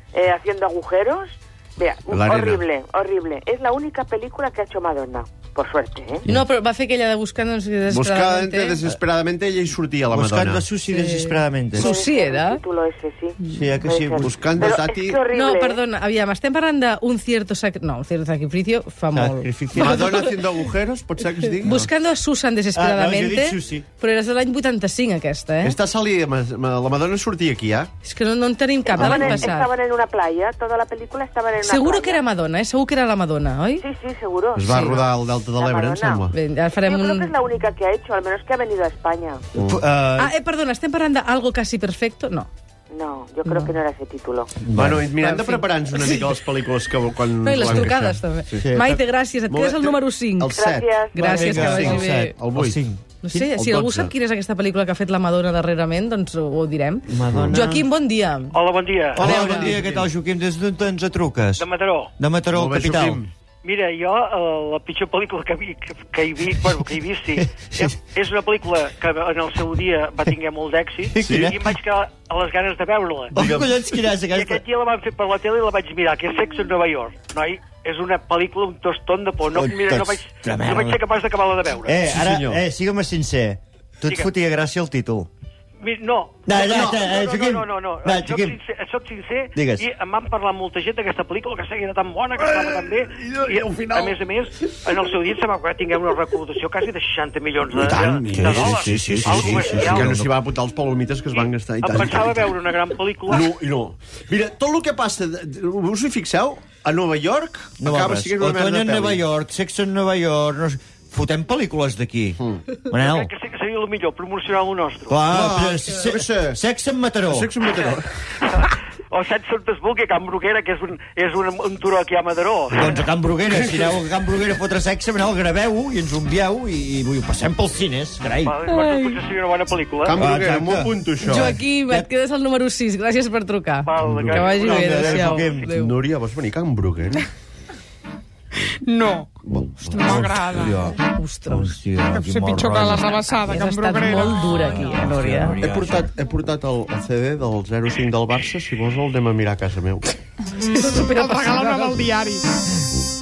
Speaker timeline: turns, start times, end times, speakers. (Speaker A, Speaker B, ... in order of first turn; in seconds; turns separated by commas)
Speaker A: 0.1-6.3, Speaker B: 2.1-2.7, Speaker C: 6.2-8.8, Speaker B: 7.9-10.7, Speaker D: 10.1-11.9, Speaker C: 10.9-12.6, Speaker A: 11.8-15.8, Speaker D: 13.4-14.8, Speaker B: 14.2-15.2, Speaker C: 15.3-20.2, Speaker D: 19.1-20.3, Speaker B: 19.7-21.9, Speaker C: 21.6-25.8, Speaker D: 22.7-23.9, Speaker B: 25.6-27.9, Speaker C: 28.0-29.7, Speaker B: 28.9-29.4, Speaker A: 28.9-32.2, Speaker C: 31.6-33.8, Speaker A: 33.8-34.9, Speaker B: 34.5-36.3, Speaker C: 34.7-35.0, Speaker A: 35.6-36.3, Speaker C: 36.3-37.3, Speaker A: 36.9-39.5, Speaker B: 39.6-40.1, Speaker D: 39.6-39.9, Speaker C: 40.2-42.5, Speaker A: 42.9-44.5, Speaker B: 44.6-48.7, Speaker D: 44.7-45.1, Speaker C: 45.2-46.2, Speaker C: 47.4-52.3, Speaker D: 47.6-48.0, Speaker D: 48.6-49.0, Speaker B: 49.5-52.8, Speaker A: 50.6-51.2, Speaker D: 51.2-53.0, Speaker C: 53.2-58.6, Speaker B: 53.4-54.1, Speaker D: 57.1-57.9, Speaker B: 57.3-57.6, Speaker E: 58.5-59.4, Speaker C: 59.1-59.8, Speaker D: 59.1-63.2, Speaker B: 59.2-60.1, Speaker E: 61.6-62.1, Speaker B: 62.5-63.3, Speaker E: 63.6-73.4, Speaker D: 67.4-68.0, Speaker D: 71.1-71.8, Speaker D: 73.3-74.6, Speaker B: 73.3-73.8, Speaker E: 74.2-82.0, Speaker D: 79.5-81.0, Speaker D: 81.8-85.3, Speaker B: 82.1-82.6, Speaker E: 85.8-100.2, Speaker D: 86.5-88.6, Speaker B: 86.5-87.0, Speaker D: 89.5-89.9, Speaker B: 92.4-94.2, Speaker B: 97.8-102.5, Speaker D: 98.3-100.3, Speaker E: 101.3-103.5, Speaker B: 103.3-109.2, Speaker D: 107.8-113.3, Speaker E: 112.9-115.2, Speaker D: 115.1-117.5, Speaker B: 115.3-116.6, Speaker B: 117.3-118.1, Speaker E: 119.1-123.0, Speaker D: 122.7-128.6, Speaker E: 128.4-130.2, Speaker F: 128.8-129.2, Speaker B: 130.1-131.6, Speaker D: 130.2-132.1, Speaker C: 131.2-136.0, Speaker E: 133.8-135.3, Speaker B: 134.0-134.5, Speaker D: 134.3-135.7, Speaker B: 135.4-137.2, Speaker F: 138.8-140.9, Speaker B: 139.5-141.0, Speaker C: 141.0-141.8, Speaker D: 141.5-143.2, Speaker F: 142.1-144.7, Speaker C: 142.8-145.6, Speaker D: 144.6-146.1, Speaker B: 145.6-150.1, Speaker C: 150.6-152.1, Speaker F: 150.7-152.4